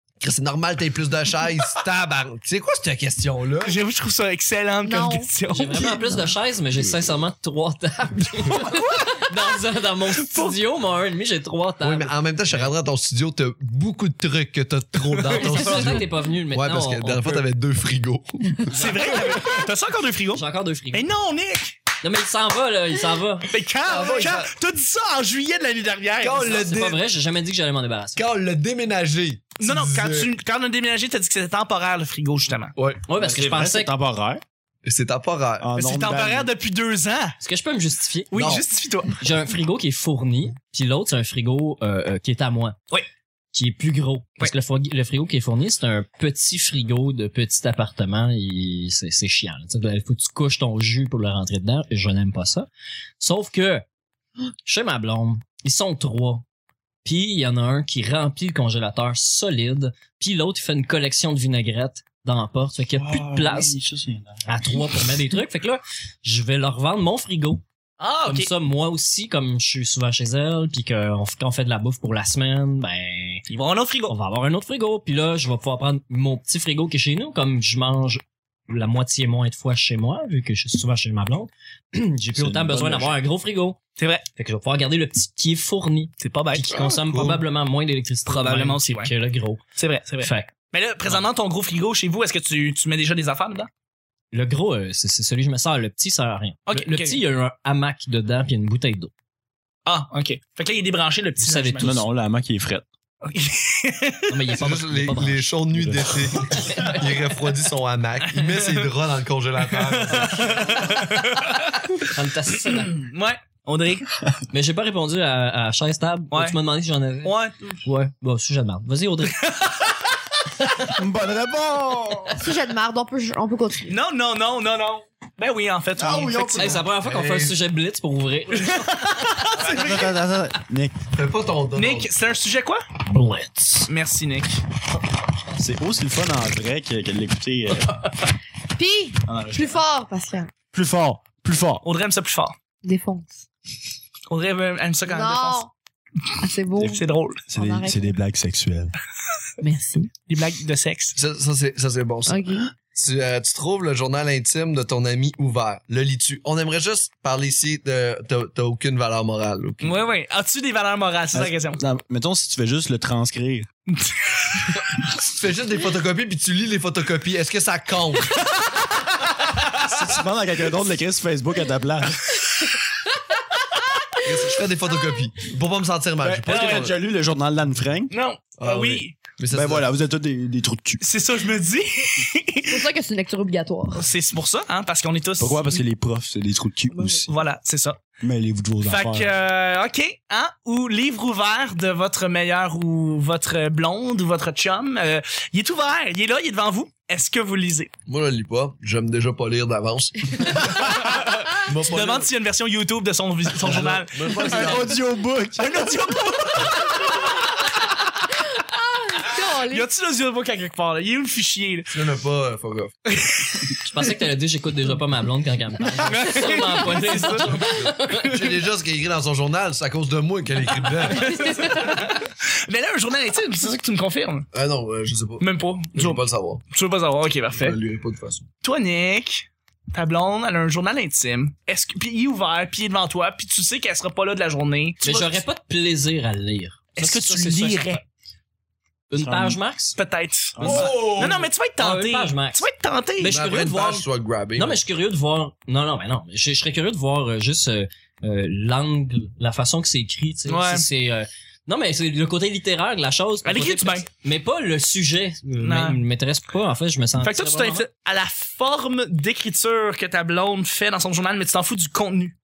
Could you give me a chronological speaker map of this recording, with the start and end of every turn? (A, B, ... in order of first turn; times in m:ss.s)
0:00.2-0:03.8 A
0:03.6-0:05.8 B
0:04.8-0:05.3 C
0:05.5-0:12.7 D
0:05.8-0:06.2 C
0:08.5-0:09.2 B
0:10.2-0:10.5 B
0:11.8-0:18.8 A
0:15.2-0:15.6 B
0:15.3-0:17.4 D
0:18.7-0:19.6 D
0:18.7-0:21.8 B
0:20.3-0:21.1 D
0:22.0-0:23.5 D
0:23.5-0:26.8 B
0:23.8-0:24.5 A
0:26.2-0:27.0 A
0:26.4-0:28.2 D
0:28.2-0:30.3 A
0:29.6-0:32.7 B
0:32.8-0:33.0 A
0:33.1-0:33.9 D
0:33.2-0:34.4 E
0:34.8-0:35.7 A
0:35.6-0:36.5 E
0:35.8-0:37.4 B
0:37.4-0:42.8 D
0:38.3-0:39.2 B
0:43.5-0:52.7 D
0:53.2-0:53.8 D
0:54.6-0:56.4 D
0:57.0-1:03.7 D
1:02.9-1:04.7 E
1:04.4-1:07.6 D
1:08.0-1:08.5 B
1:08.2-1:13.4 D
1:13.5-1:14.1 B
1:14.1-1:23.8 D
1:22.3-1:23.2 E
1:24.0-1:24.2 B
1:24.4-1:29.6 D
1:26.2-1:27.0 B
1:26.9-1:27.3 A
1:28.2-1:29.1 B
1:29.8-1:33.7 B
1:30.2-1:30.5 D
1:34.3-1:39.1 D
1:36.7-1:37.2 B
1:39.8-1:42.0 B
1:41.4-1:42.0 D
1:41.8-1:42.8 E
1:43.2-1:44.3 B
1:44.3-1:45.5 D
1:44.5-1:50.9 A
1:45.7-1:46.9 E
1:46.5-1:47.1 D
1:48.2-1:48.9 B
1:49.8-1:52.0 B
1:51.9-1:53.0 D
1:52.6-1:54.1 B
1:54.5-1:59.6 D
1:56.3-1:56.6 B
1:57.2-1:57.6 B
1:59.5-1:59.8 B
2:00.9-2:02.4 E
2:02.4-2:03.9 C
2:03.9-2:06.8 B
2:06.0-2:06.8 E
2:06.6-2:09.3 D
2:07.0-2:07.6 A
2:08.5-2:10.1 B
2:09.5-2:11.0 E
2:11.1-2:12.1 A
2:11.8-2:12.8 B
2:13.1-2:13.9 D
2:13.9-2:14.6 B
2:15.6-2:18.1 E
2:18.7-2:20.5 C
2:19.2-2:19.8 E
2:20.7-2:21.8 E
2:21.8-2:22.6 B
2:22.8-2:23.4 C
2:24.3-2:25.6 B
2:25.1-2:25.7 C
2:26.4-2:27.0 C
2:26.8-2:27.4 B
2:27.5-2:28.9 E
2:27.5-2:28.1 C
2:29.6-2:30.1 C
2:30.3-2:31.2 B
2:31.1-2:40.0 A
2:32.3-2:32.7 C
2:39.8-2:41.8 B
2:41.3-2:43.7 E
2:43.9-2:44.6 B
2:45.2-2:48.4 A
2:49.8-2:52.4 E
2:54.2-2:57.0 A
2:56.2-2:58.1 E
2:56.5-2:56.9 B
2:58.1-2:59.2 B
2:58.6-2:59.8 A
2:59.5-3:01.0 E
3:01.0-3:02.8 B
3:02.7-3:04.0 C
3:03.9-3:05.8 B
3:05.4-3:07.4 E
3:06.9-3:07.2 C
3:07.3-3:08.0 B
3:08.2-3:09.3 E
3:08.8-3:17.9 B
3:18.1-3:22.3 A
3:20.8-3:25.0 B
3:23.5-3:25.0 A
3:24.4-3:26.1 E
3:25.6-3:27.5 B
3:28.6-3:29.9 C
3:29.6-3:31.9 B
3:31.9-3:32.9 A
3:33.1-3:33.7 B
3:33.8-3:38.4 D
3:36.0-3:37.9 B
3:37.5-3:41.6 A
3:41.1-3:44.5 B
3:44.5-3:46.6 A
3:45.4-3:47.8 B
3:47.5-3:48.4 A
3:48.6-3:55.4 B
3:55.0-3:58.0 D
3:56.9-3:58.0 B
3:59.1-4:00.0 D
3:59.2-3:59.6 E
4:00.0-4:03.4 B
4:00.6-4:01.3 E
4:00.6-4:01.0 D
4:00.6-4:01.4 A
4:01.8-4:02.6 D
4:03.2-4:04.0 D
4:03.2-4:04.8 A
4:04.6-4:17.9 D
4:10.5-4:10.8 B
4:13.4-4:14.1 B
4:15.6-4:16.0 B
4:17.2-4:22.3 B